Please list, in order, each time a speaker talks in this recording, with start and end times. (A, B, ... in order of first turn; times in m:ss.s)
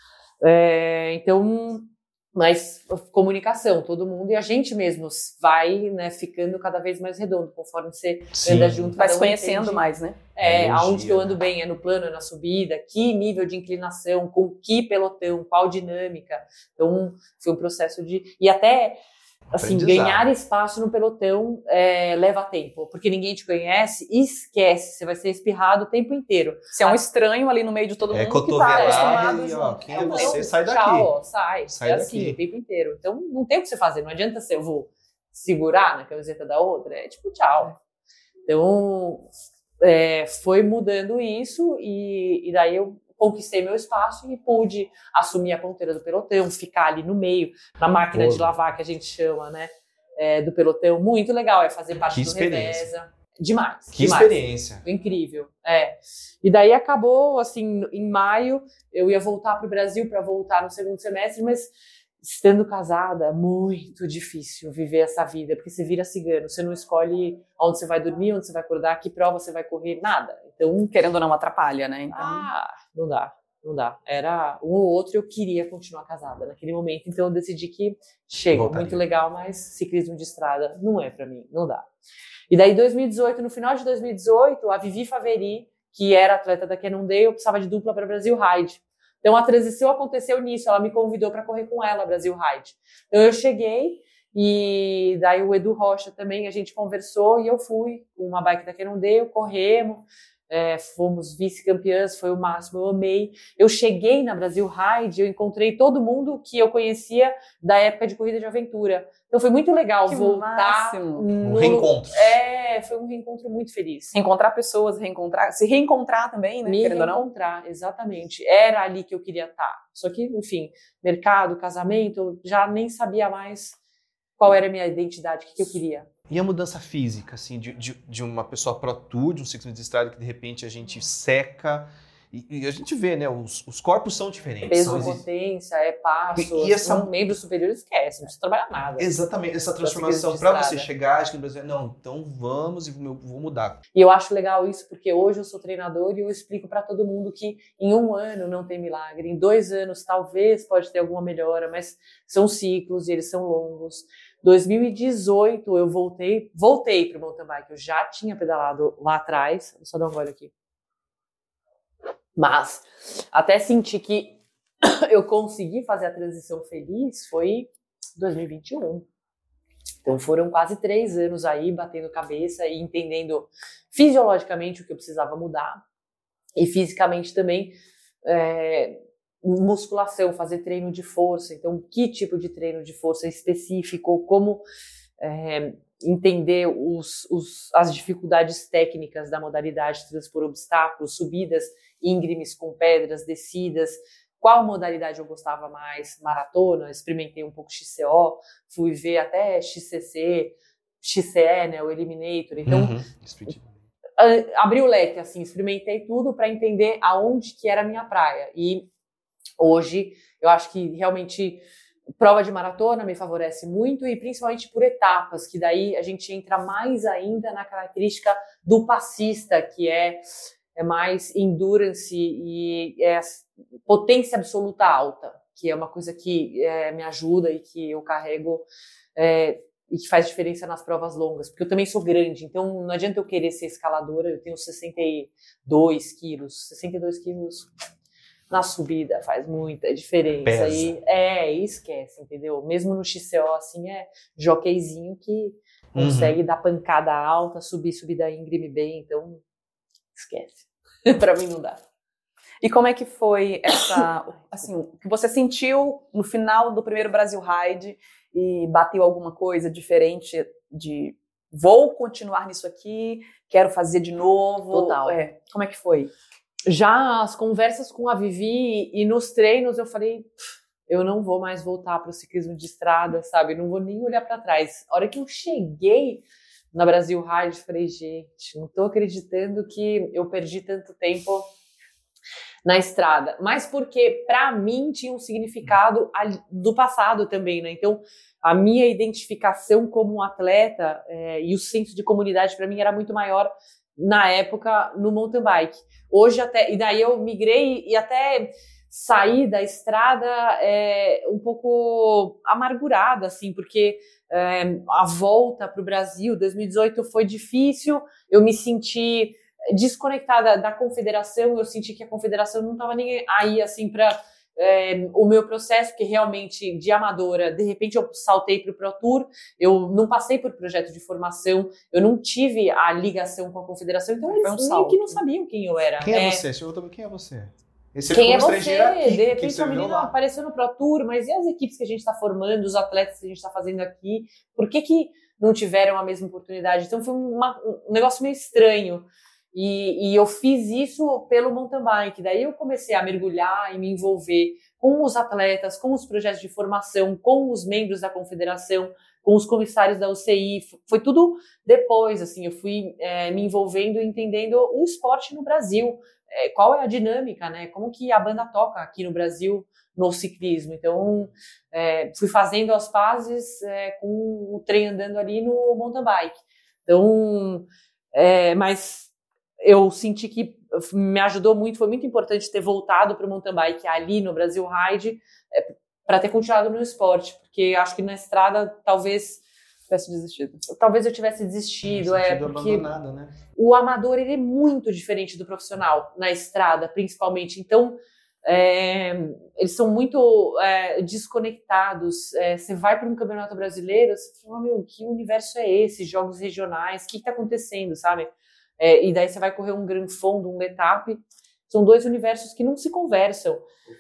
0:00.4-0:19.0 A
0:08.3-0:09.0 B
0:09.0-0:10.2 C
0:10.4-0:11.4 B
0:19.6-0:27.0 A
0:19.6-0:20.3 B
0:26.7-0:30.4 C
0:28.1-0:31.1 B
0:28.7-0:37.8 A
0:31.7-0:32.4 B
0:38.5-0:39.3 A
0:39.8-1:10.9 A
0:48.1-0:48.5 B
0:52.1-0:52.9 B
0:53.9-0:54.8 B
1:10.9-1:12.5 C
1:12.1-1:21.9 A
1:18.5-1:19.0 B
1:22.5-1:54.1 A
1:50.1-1:51.3 C
1:51.4-1:52.4 B
1:54.1-1:57.3 C
1:56.7-2:03.8 A
2:04.4-2:06.1 A
2:06.3-2:15.2 B
2:14.7-2:19.2 A
2:16.4-2:17.1 B
2:19.0-2:23.8 B
2:19.8-2:20.9 A
2:23.9-2:40.5 A
2:42.4-2:49.1 A
2:50.0-2:55.8 A
2:56.6-3:04.6 A
3:05.2-3:23.0 A
3:22.7-3:23.7 B
3:24.2-3:28.9 A
3:29.6-3:31.6 A
3:32.2-3:48.6 A
3:49.2-3:57.7 A
3:58.5-4:09.4 A
4:00.4-4:01.0 B
4:05.9-4:06.4 B
4:10.2-4:11.8 A
4:12.6-4:26.1 C
4:24.7-4:25.2 A
4:26.7-4:30.3 A
4:30.9-4:41.5 A
4:42.6-5:26.4 A
5:24.3-5:25.2 C
5:26.0-5:30.1 B
5:28.1-6:09.1 A
6:09.6-6:19.4 A
6:19.9-6:20.6 C
6:20.7-6:22.9 A
6:21.8-6:23.4 B
6:23.6-6:43.6 A